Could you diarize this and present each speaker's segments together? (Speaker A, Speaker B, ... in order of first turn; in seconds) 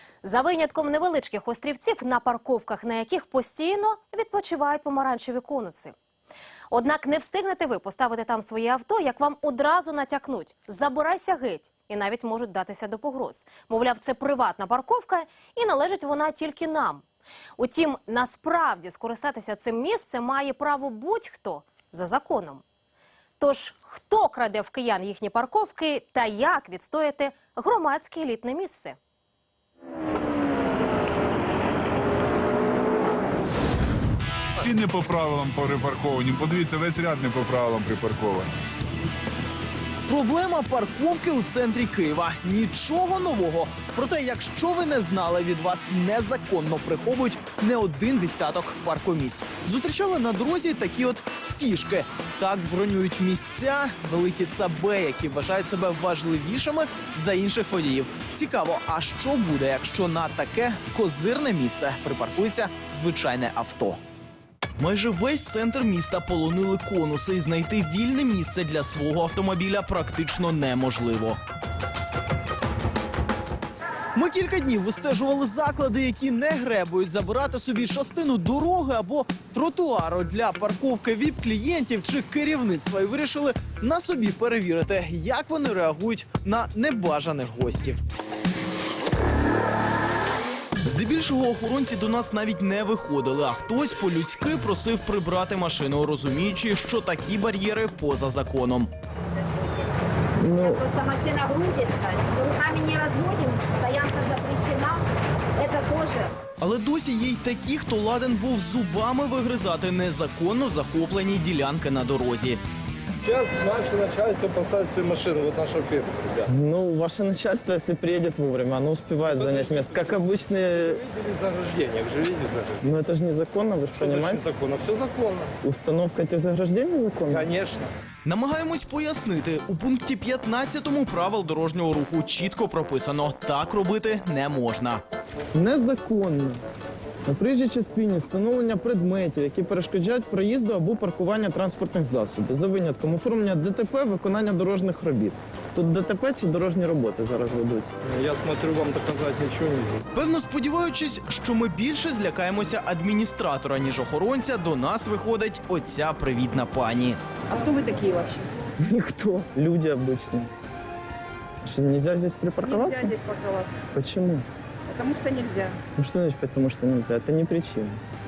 Speaker A: 0.2-6.0, 6.7-17.1, 17.6-22.6, 23.4-29.0
Speaker B: 34.6-38.5
Speaker C: 40.1-64.0, 64.8-71.4, 74.1-88.0, 90.8-98.9, 106.6-112.6, 128.2-135.0, 150.1-157.2
Speaker D: 99.4-105.0, 105.5-106.3
Speaker E: 100.4-100.8, 116.5-121.0, 122.8-124.4, 125.6-127.5, 135.5-136.6, 137.3-147.9, 158.8-160.5, 161.6-163.1, 163.9-164.5, 166.0-168.0
Speaker F: 113.2-116.5, 119.3-120.2, 120.8-122.8, 123.9-125.5, 127.3-127.9, 148.0-150.1
Speaker G: 157.5-158.4, 162.6-163.8, 164.9-165.8